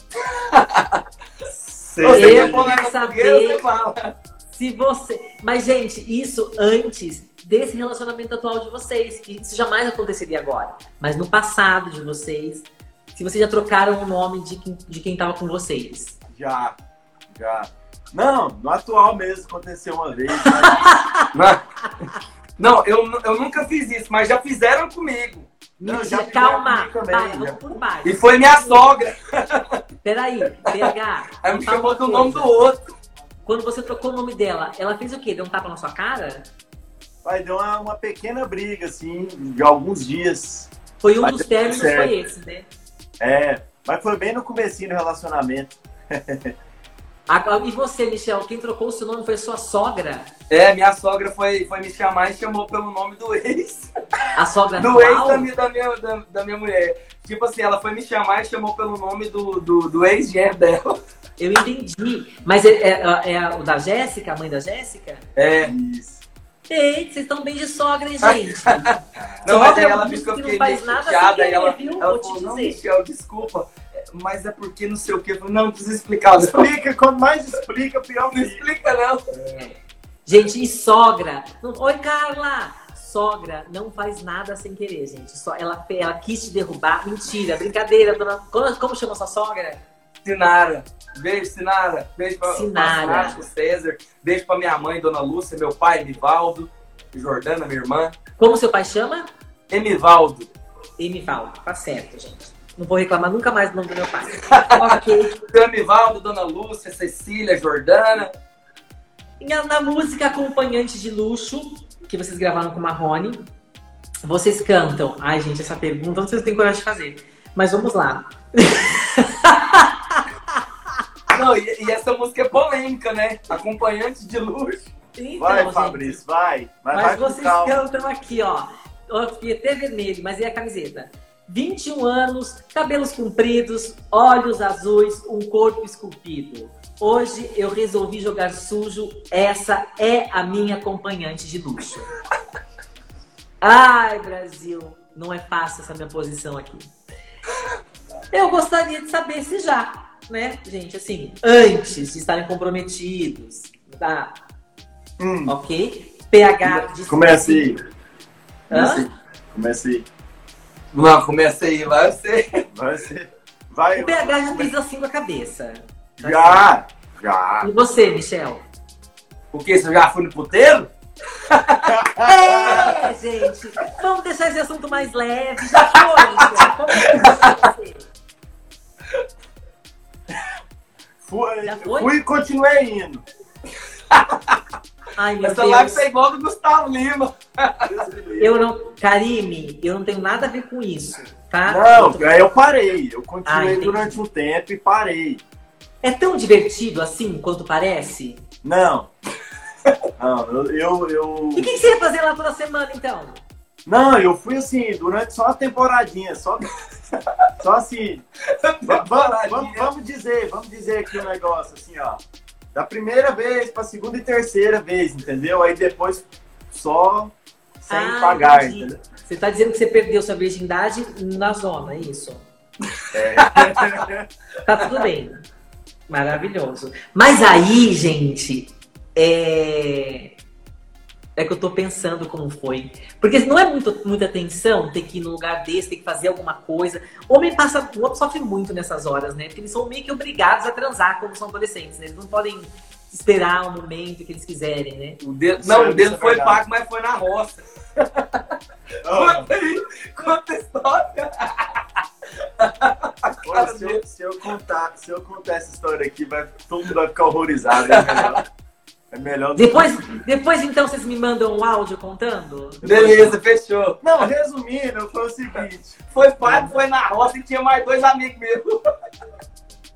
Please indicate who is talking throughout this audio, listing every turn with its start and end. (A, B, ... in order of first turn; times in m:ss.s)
0:00.3-0:01.0 A
0:01.6-0:02.8 B
0:02.0-0:04.1 A
0:02.1-0:03.6 C
0:04.5-0:16.2 C
0:16.3-0:16.8 B
0:17.3-0:20.9 B
0:20.4-0:21.2 C
0:21.3-0:21.6 A
0:22.6-0:25.5 A
0:25.8-0:29.0 C
0:25.8-0:27.8 B
0:28.0-0:29.8 A
0:30.0-0:32.7 C
0:30.5-0:32.8 A
0:33.4-0:36.5 C
0:37.2-0:42.1 B
0:41.0-0:42.7 C
0:43.2-0:46.5 B
0:47.3-0:50.3 C
0:50.5-0:53.9 A
0:54.4-0:55.5 C
0:54.8-1:01.0 A
1:01.4-1:05.2 C
1:05.4-1:05.7 A
1:05.6-1:06.2 B
1:06.7-1:12.8 C
1:08.2-1:16.7 A
1:09.2-1:09.6 B
1:16.4-1:18.6 B
1:18.3-1:19.2 A
1:19.3-1:19.7 C
1:20.2-1:29.8 C
1:30.2-1:38.1 A
1:32.4-1:33.4 C
1:38.4-1:39.3 C
1:39.7-1:40.5 A
1:41.0-1:45.4 C
1:44.4-1:48.3 A
1:49.4-1:53.4 C
1:54.2-2:00.2 C
2:01.3-2:04.9 A
2:05.1-2:06.2 C
2:05.4-2:07.9 B
2:06.9-2:22.1 C
2:23.6-2:26.9 C
2:28.3-2:34.4 C
2:35.2-2:35.5 B
2:35.5-2:37.7 C
2:37.0-2:37.8 B
2:38.7-2:39.1 C
2:38.7-2:39.0 A
2:39.5-2:40.0 B
2:40.9-2:42.6 A
2:42.7-2:44.7 B
2:43.9-2:46.7 C
2:46.2-2:47.7 B
2:47.6-2:48.6 C
2:49.5-2:52.0 A
2:51.8-2:53.0 B
2:52.2-2:58.0 C
2:55.7-2:57.6 A
3:01.2-3:03.2 B
3:01.6-3:02.1 C
3:04.1-3:04.6 A
3:05.2-3:06.0 C
3:05.4-3:08.0 A
3:07.8-3:08.6 B
3:08.4-3:12.4 C
3:11.6-3:15.4 B
3:13.4-3:14.2 C
3:16.0-3:18.4 C
3:18.6-3:19.1 B
3:20.2-3:21.8 B
3:21.5-3:23.4 C
3:23.8-3:26.7 B
3:27.6-3:28.2 B
3:28.6-3:29.9 A
3:28.9-3:32.2 B
3:32.7-3:39.0 B
3:37.9-3:42.4 C
3:43.1-3:44.3 B
3:43.4-3:44.0 A
3:44.6-3:45.4 C
3:46.1-3:50.3 C
3:51.4-4:05.2 C
4:05.2-4:11.8 A
4:05.6-4:06.6 B
4:09.0-4:09.5 B
4:12.6-4:14.0 A
4:13.4-4:18.4 B
4:17.8-4:18.4 A
4:19.1-4:20.0 B
4:19.5-4:22.8 C
4:22.8-4:23.4 B
4:22.8-4:24.0 A
4:24.0-4:26.7 B
4:26.1-4:28.8 A